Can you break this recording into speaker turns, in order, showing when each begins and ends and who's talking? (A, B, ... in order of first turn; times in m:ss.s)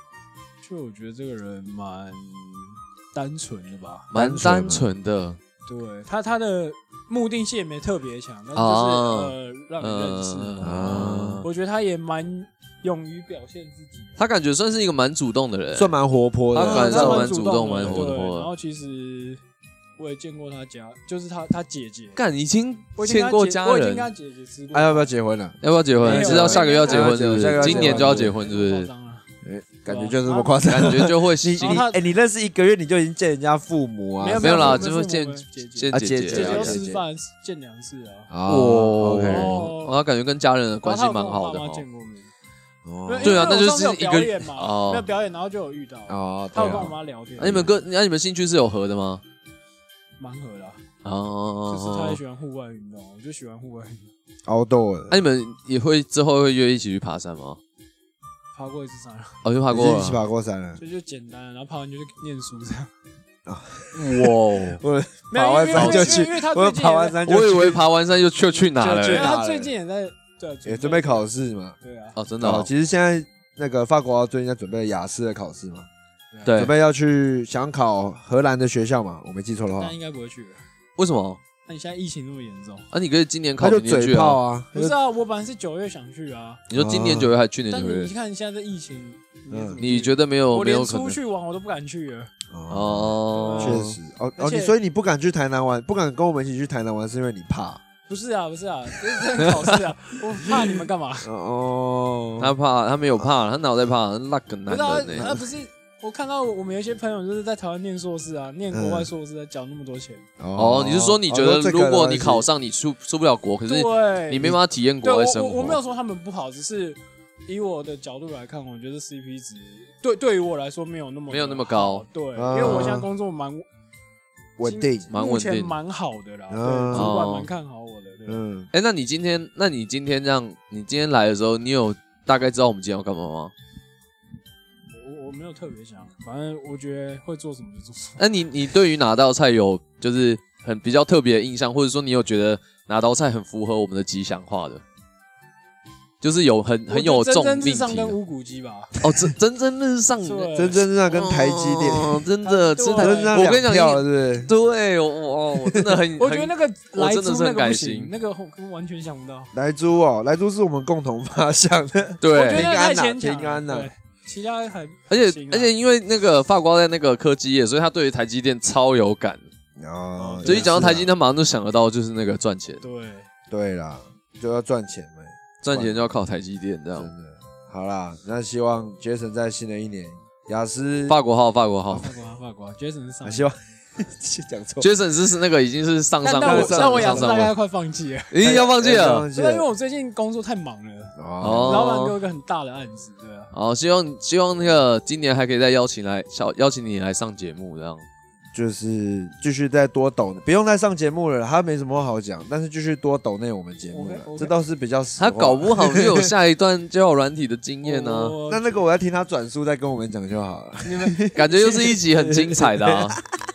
0:00.6-0:04.1 A
0:04.1-0:04.9 B
0:04.1-0:05.4 C
0:05.7-0:10.8 A
0:08.5-0:11.5 C
0:10.6-0:11.4 B
0:11.4-0:14.2 A
0:14.2-0:15.9 C
0:15.7-0:18.0 B
0:16.5-0:18.5 C
0:16.6-0:19.4 A
0:20.0-0:22.2 A
0:22.2-0:24.1 C
0:23.0-0:25.1 A
0:24.7-0:28.4 B
0:25.6-0:28.9 C
0:26.0-0:29.3 A
0:29.4-0:34.9 B
0:29.9-0:30.8 A
0:30.6-0:31.9 C
0:31.6-0:32.1 A
0:34.2-0:38.3 A
0:34.4-0:36.8 C
0:35.9-0:37.0 B
0:38.3-0:39.6 B
0:38.5-0:41.8 C
0:39.2-0:40.0 A
0:40.8-0:42.3 A
0:42.8-0:43.5 B
0:43.1-0:47.7 A
0:43.2-0:45.1 C
0:46.1-0:47.8 B
0:47.4-0:49.2 C
0:50.2-0:50.8 A
0:51.0-0:52.2 C
0:51.7-0:54.1 A
0:54.5-0:55.2 B
0:55.1-0:57.6 C
0:58.5-0:59.4 A
0:59.4-1:00.2 C
0:59.7-1:00.8 B
1:00.8-1:02.9 A
1:03.5-1:07.9 B
1:03.9-1:04.8 C
1:05.3-1:07.2 A
1:05.7-1:06.2 C
1:07.2-1:09.3 C
1:08.7-1:11.3 A
1:09.0-1:09.7 B
1:10.6-1:11.8 B
1:11.8-1:12.2 A
1:12.2-1:12.7 C
1:12.4-1:15.9 B
1:16.3-1:16.6 A
1:16.4-1:16.7 C
1:16.5-1:19.9 B
1:19.8-1:20.6 A
1:21.0-1:21.4 C
1:21.7-1:22.9 A
1:22.9-1:24.4 C
1:23.6-1:25.0 B
1:24.7-1:26.6 A
1:26.7-1:28.1 C
1:26.7-1:27.4 B
1:27.7-1:32.3 A
1:29.5-1:29.8 B
1:29.8-1:31.2 C
1:32.5-1:37.8 B
1:32.7-1:34.0 C
1:33.3-1:34.8 A
1:38.1-1:41.3 A
1:41.2-1:42.6 B
1:42.4-1:45.4 C
1:44.7-1:50.3 A
1:45.2-1:45.5 B
1:48.7-1:49.1 B
1:50.4-1:52.5 B
1:50.6-1:55.8 C
1:53.7-2:03.7 A
2:01.3-2:02.0 C
2:02.4-2:03.1 B
2:02.6-2:02.9 C
2:04.6-2:05.1 B
2:04.6-2:08.4 A
2:05.1-2:05.8 C
2:06.5-2:07.2 B
2:06.9-2:07.5 C
2:08.3-2:08.7 B
2:08.7-2:13.5 C
2:14.9-2:18.2 A
2:18.2-2:24.8 C
2:26.2-2:28.2 C
2:26.9-2:29.0 A
2:29.0-2:30.6 C
2:30.2-2:30.9 A
2:30.6-2:32.2 B
2:31.1-2:38.1 C
2:32.4-2:33.4 A
2:33.0-2:34.5 B
2:35.7-2:36.0 B
2:36.2-2:39.5 A
2:39.5-2:43.9 B
2:42.2-2:42.7 C
2:42.3-2:45.7 A
2:45.1-2:49.4 C
2:49.8-2:51.1 B
2:50.2-2:50.7 A
2:50.4-2:52.8 C
2:52.8-2:53.3 A
2:53.5-2:56.2 B
2:55.6-2:57.1 C
2:57.0-3:01.2 B
3:01.1-3:02.1 C
3:01.9-3:03.5 A
3:03.2-3:04.9 B
3:04.8-3:07.5 C
3:06.2-3:08.4 A
3:06.4-3:07.5 B
3:08.3-3:09.3 C
3:08.4-3:09.7 B
3:09.3-3:13.5 A
3:11.2-3:11.9 B
3:11.4-3:12.2 C
3:13.5-3:18.1 C
3:18.5-3:26.3 B
3:23.9-3:24.6 A
3:25.2-3:28.4 C
3:27.8-3:28.9 A
3:28.5-3:33.2 B
3:30.8-3:31.9 A
3:31.4-3:33.2 C